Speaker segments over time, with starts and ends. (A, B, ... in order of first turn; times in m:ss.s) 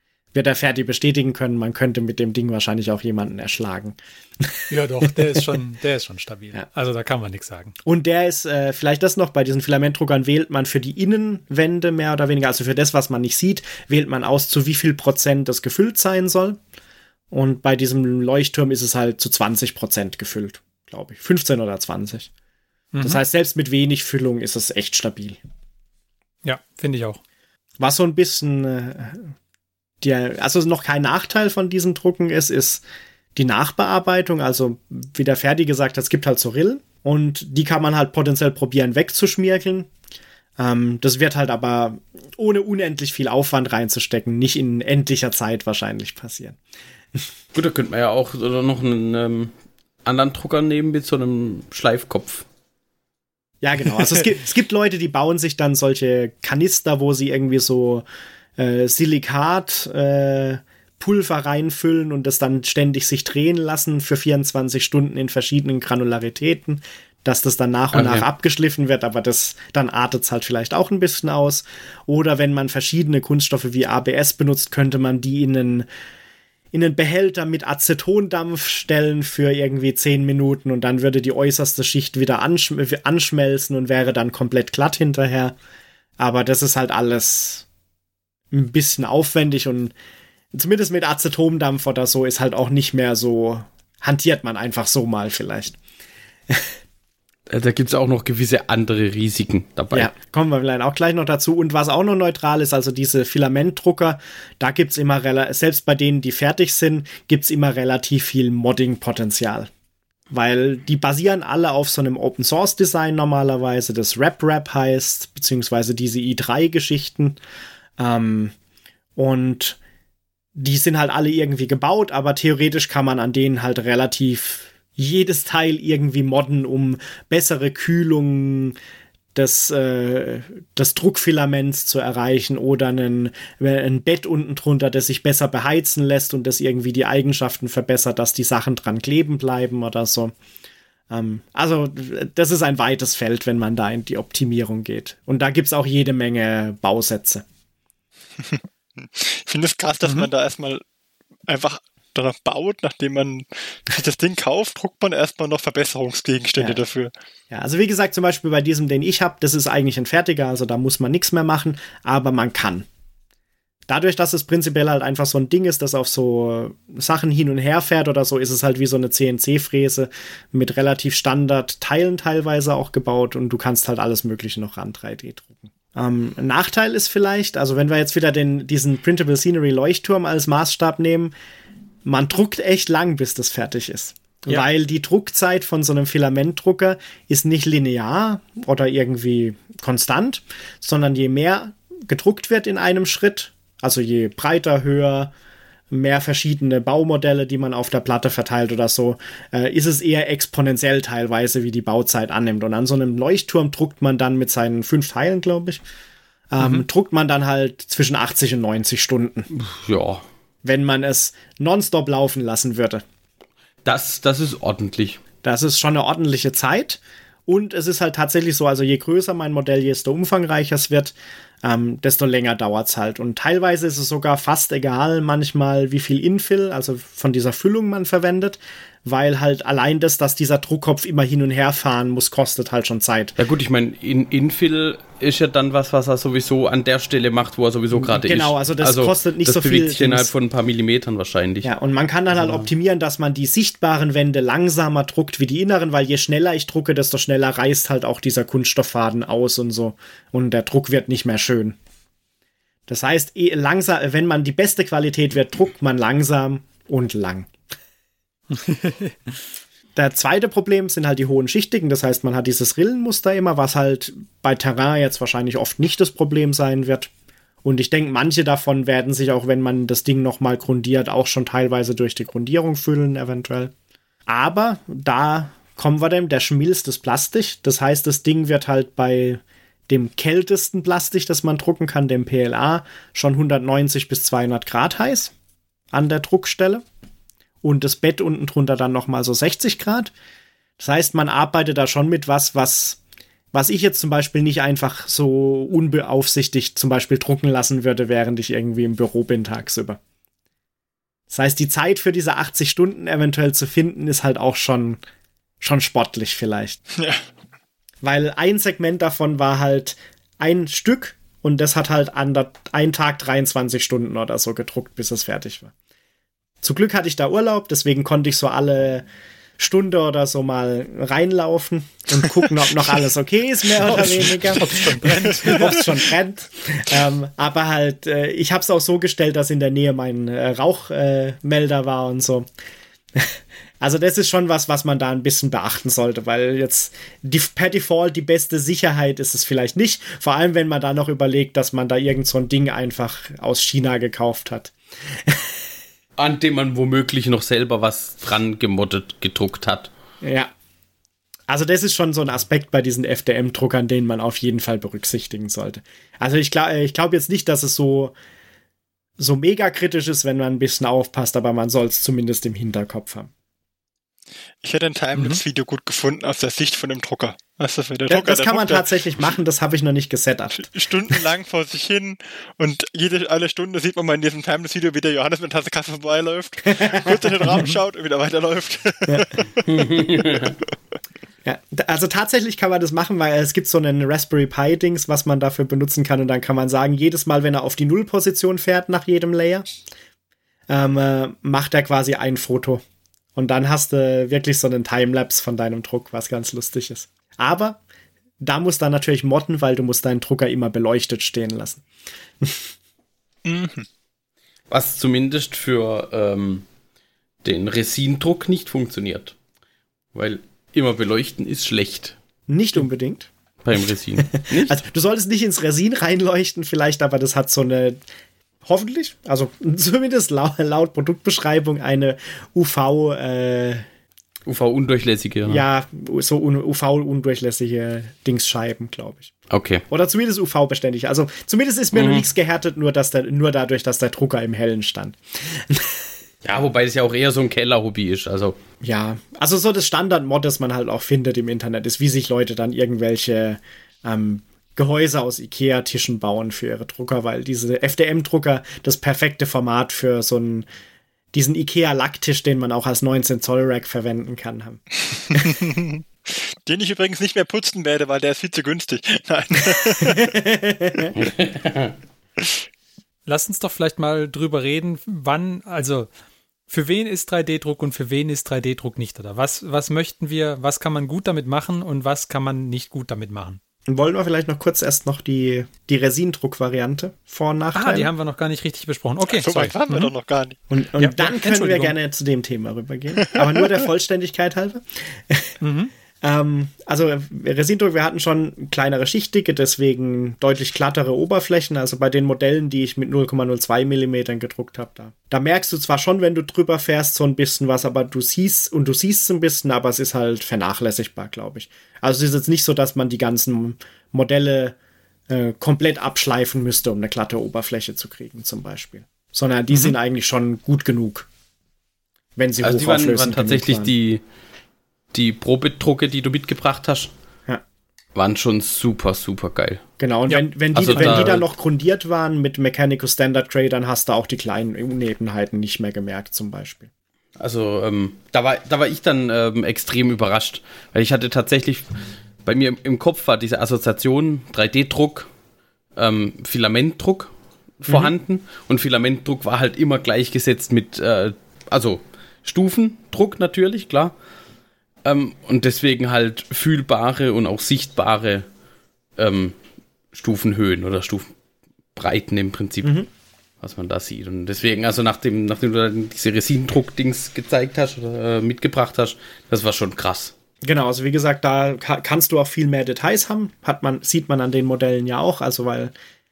0:00.3-0:05.4 A
0:04.7-0:07.8 B
0:07.8-0:16.6 A
0:17.3-0:22.3 A
0:22.9-0:23.2 B
0:23.0-0:25.4 A
0:26.4-0:27.2 B
0:27.8-0:29.3 A
0:30.0-0:32.8 A
0:33.4-0:39.9 A
0:40.6-0:46.6 A
0:47.6-0:49.5 C
0:50.0-0:52.5 C
0:53.6-0:58.0 A
0:58.6-1:15.9 A
1:07.9-1:08.2 C
1:16.7-1:25.6 A
1:26.2-1:27.7 A
1:28.5-1:29.9 A
1:30.5-1:35.8 A
1:37.5-1:40.1 C
1:39.9-1:49.7 A
1:50.3-1:57.4 A
1:58.0-1:58.5 A
1:59.2-1:59.8 A
2:00.6-2:08.8 A
2:09.4-2:20.3 A
2:21.1-2:27.4 A
2:28.4-2:30.8 D
2:31.5-2:37.1 D
2:37.5-2:42.9 A
2:43.9-3:01.3 A
3:02.1-3:15.3 A
3:15.9-3:25.8 A
3:26.5-3:29.5 A
3:29.5-3:30.2 C
3:30.6-3:33.0 A
3:33.8-3:35.2 C
3:35.4-3:53.4 A
3:53.4-4:01.7 C
3:57.9-4:00.3 A
4:01.6-4:11.8 A
4:02.4-4:02.7 C
4:12.9-4:17.5 A
4:18.5-4:19.4 B
4:20.0-4:27.1 A
4:27.6-4:33.7 A
4:34.3-4:45.3 A
4:45.9-4:46.8 A
4:47.6-4:50.1 A
4:50.8-4:53.0 A
4:53.5-5:00.0 A
5:01.3-5:05.0 A
5:05.6-5:06.8 A
5:07.0-5:07.3 D
5:08.0-5:15.7 A
5:16.6-5:19.1 A
5:19.6-5:32.5 A
5:23.9-5:25.8 B
5:25.0-5:25.9 D
5:33.2-5:45.6 A
5:46.2-5:49.9 C
5:50.2-5:50.5 A
5:51.5-5:58.2 A
5:59.2-6:03.3 A
6:04.6-6:08.9 D
6:08.1-6:10.7 A
6:10.7-6:19.7 D
6:16.7-6:17.2 A
6:19.6-6:20.6 C
6:21.4-6:29.7 A
6:30.7-6:32.8 A
6:33.4-6:37.8 A
6:38.4-6:41.8 A
6:42.4-6:42.7 A
6:43.4-6:43.9 D
6:44.7-6:46.6 C
6:47.4-6:49.4 C
6:50.1-6:52.2 C
6:52.5-6:53.3 A
6:53.6-6:54.7 C
6:54.4-6:58.0 A
6:58.6-7:03.8 A
7:04.5-7:05.6 C
7:05.4-7:09.3 A
7:09.5-7:09.8 C
7:09.9-7:16.1 A
7:11.9-7:12.2 C
7:16.4-7:18.6 C
7:18.8-7:30.7 A
7:31.3-7:35.6 A
7:35.3-7:40.3 D
7:40.0-7:41.1 A
7:41.2-7:41.9 C
7:43.3-7:46.1 B
7:46.7-7:53.6 B
7:53.9-7:58.1 A
7:57.8-8:00.1 B
7:59.3-8:00.6 D
8:00.7-8:05.6 A
8:01.0-8:02.0 B
8:05.6-8:05.9 B
8:06.2-8:24.8 A
8:25.3-8:31.3 A
8:32.4-8:33.9 A
8:32.6-8:34.2 C
8:35.1-8:37.1 C
8:38.2-8:39.8 C
8:40.0-8:46.9 A
8:40.3-8:41.3 B
8:40.7-8:41.5 C
8:47.4-8:51.9 C
8:52.4-8:55.3 C
8:56.0-9:04.2 C
9:05.0-9:08.5 C
9:09.2-9:09.6 C
9:10.1-9:11.3 C
9:12.0-9:13.0 C
9:12.8-9:13.1 A
9:13.6-9:20.3 C
9:20.6-9:25.9 A